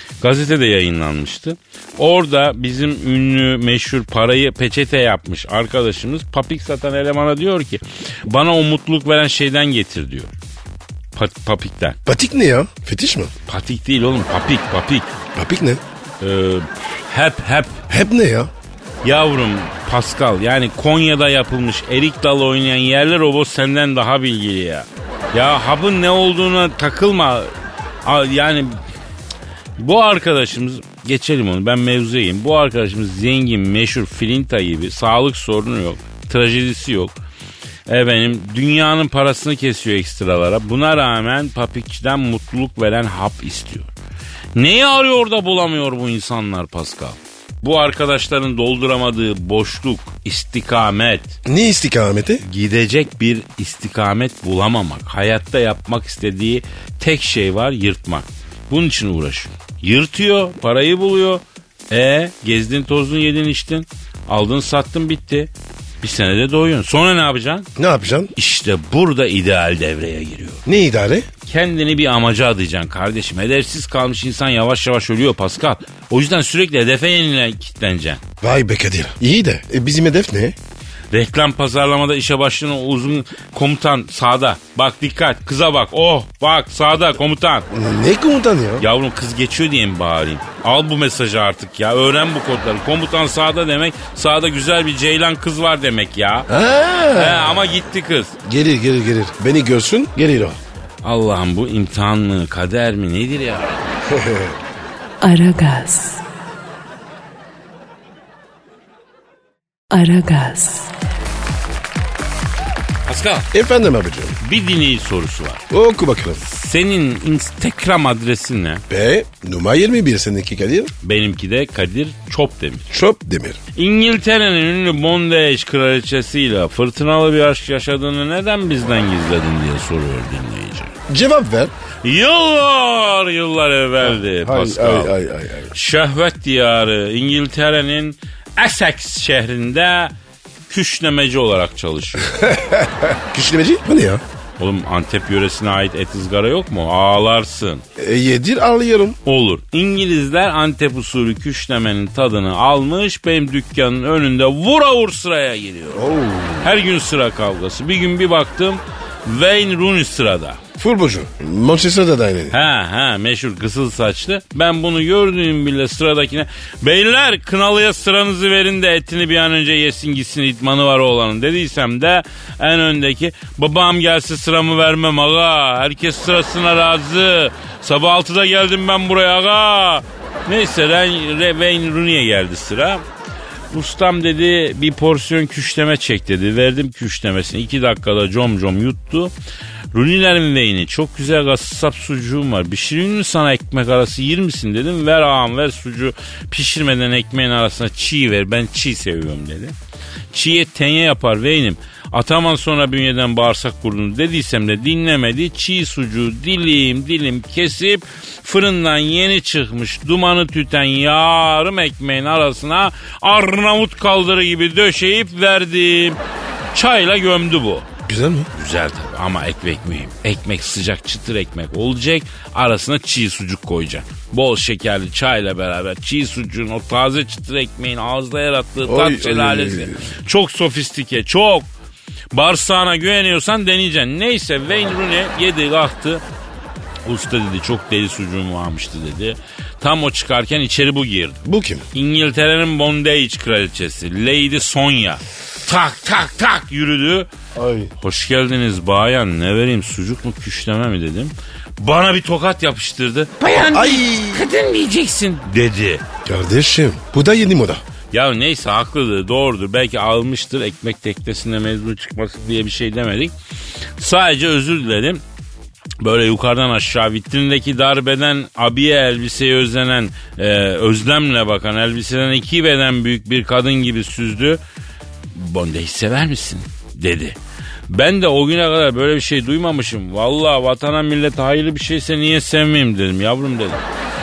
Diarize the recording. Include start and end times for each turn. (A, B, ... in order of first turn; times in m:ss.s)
0:00.2-0:10.3 A
0:11.1-0:12.0 A
0:12.0-0:13.3 B
0:13.5-0:15.1 A
0:15.3-0:15.8 B
0:16.2-0:17.8 A
0:17.9-0:18.5 B
0:19.0-0:27.5 A
0:28.0-0:28.8 A
0:29.8-0:37.1 A
0:37.9-0:43.9 A
0:44.5-0:51.4 A
0:51.4-0:52.4 B
0:52.4-1:07.7 A
1:07.8-1:08.3 B
1:08.4-1:10.6 A
1:10.6-1:11.3 B
1:11.4-1:18.2 A
1:18.4-1:20.6 B
1:21.1-1:27.7 A
1:27.7-1:28.8 B
1:28.8-1:36.5 A
1:36.5-1:37.8 B
1:37.1-1:38.4 A
1:38.4-1:40.6 B
1:41.0-1:44.0 A
1:44.1-1:44.6 B
1:45.2-1:46.2 C
1:49.9-1:50.9 C
1:53.0-1:53.5 A
1:53.5-1:54.4 B
1:54.4-1:55.6 A
1:55.7-1:56.4 B
1:56.4-1:58.8 A
1:58.9-2:00.9 B
2:01.0-2:02.9 A
2:02.9-2:03.6 B
2:03.7-2:10.9 A
2:11.1-2:11.7 B
2:12.0-2:15.1 A
2:14.0-2:15.7 B
2:15.7-2:20.1 A
2:20.7-2:22.4 A
2:22.3-2:24.2 B
2:24.6-2:27.8 A
2:28.0-2:29.2 B
2:29.2-2:40.6 A
2:35.9-2:36.7 B
2:40.8-2:42.5 B
2:42.5-3:03.0 A
3:03.7-3:09.3 A
3:09.9-3:19.7 A
3:20.3-3:36.2 A
3:36.7-3:37.9 A
3:38.1-3:38.5 B
3:38.5-3:51.7 A
3:48.8-3:50.1 B
3:52.3-3:56.2 A
3:57.0-4:01.4 A
4:01.4-4:01.8 B
4:01.9-4:07.3 A
4:07.5-4:07.9 B
4:08.0-4:16.0 A
4:13.5-4:14.4 B
4:16.2-4:17.8 B
4:18.1-4:23.3 A
4:24.0-4:25.2 A
4:26.0-4:34.6 A
4:35.3-4:37.4 A
4:37.9-4:43.8 A